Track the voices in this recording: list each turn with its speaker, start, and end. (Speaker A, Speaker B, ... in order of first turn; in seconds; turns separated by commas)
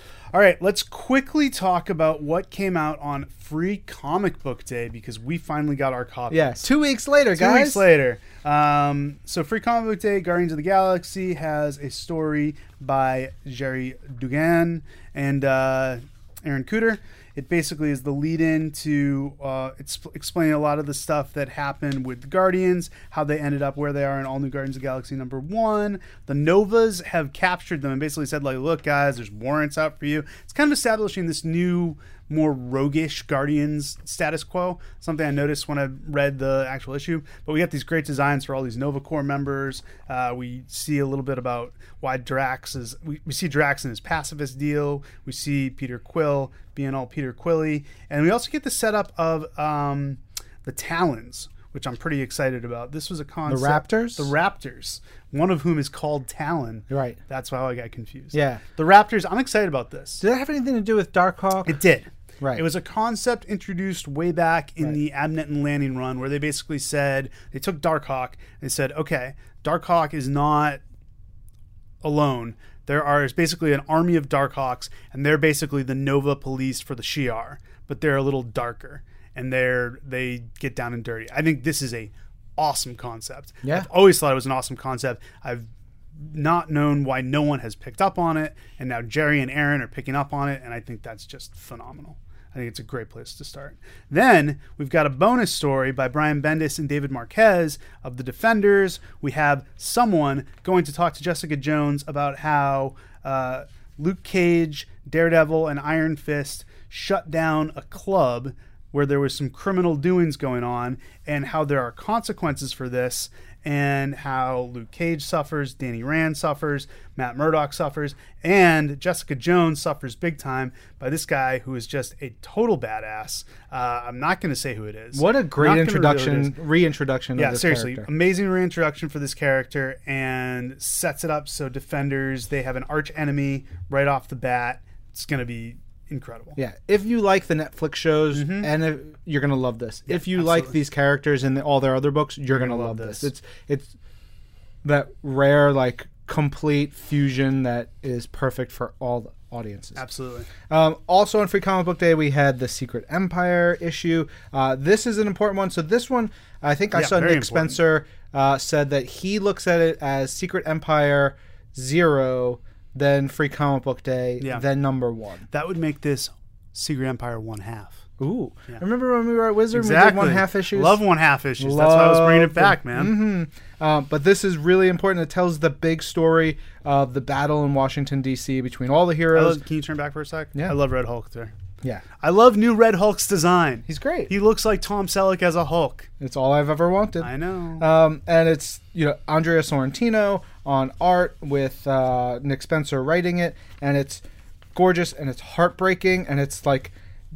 Speaker A: 0.3-6.7, Speaker B: 6.3-7.8, Speaker A: 7.3-60.2, Speaker B: 53.5-54.3, Speaker B: 56.9-57.2, Speaker B: 58.3-58.6, Speaker B: 60.2-61.8, Speaker A: 61.7-70.8, Speaker B: 62.4-62.7, Speaker A: 72.0-126.5, Speaker B: 83.6-83.9, Speaker B: 125.1-128.1, Speaker A: 127.4-136.6, Speaker B: 136.6-143.9, Speaker A: 138.3-138.7, Speaker A: 140.1-140.8, Speaker A: 142.5-143.3, Speaker B: 144.8-150.0, Speaker A: 150.0-150.5, Speaker B: 150.7-165.5, Speaker A: 156.9-157.8, Speaker A: 165.5-168.0, Speaker B: 168.2-171.0, Speaker A: 169.7-173.1, Speaker B: 171.6-179.6, Speaker A: 179.3-181.5, Speaker A: 182.2-186.1, Speaker B: 183.8-184.3, Speaker B: 186.2-196.9, Speaker A: 187.2-187.9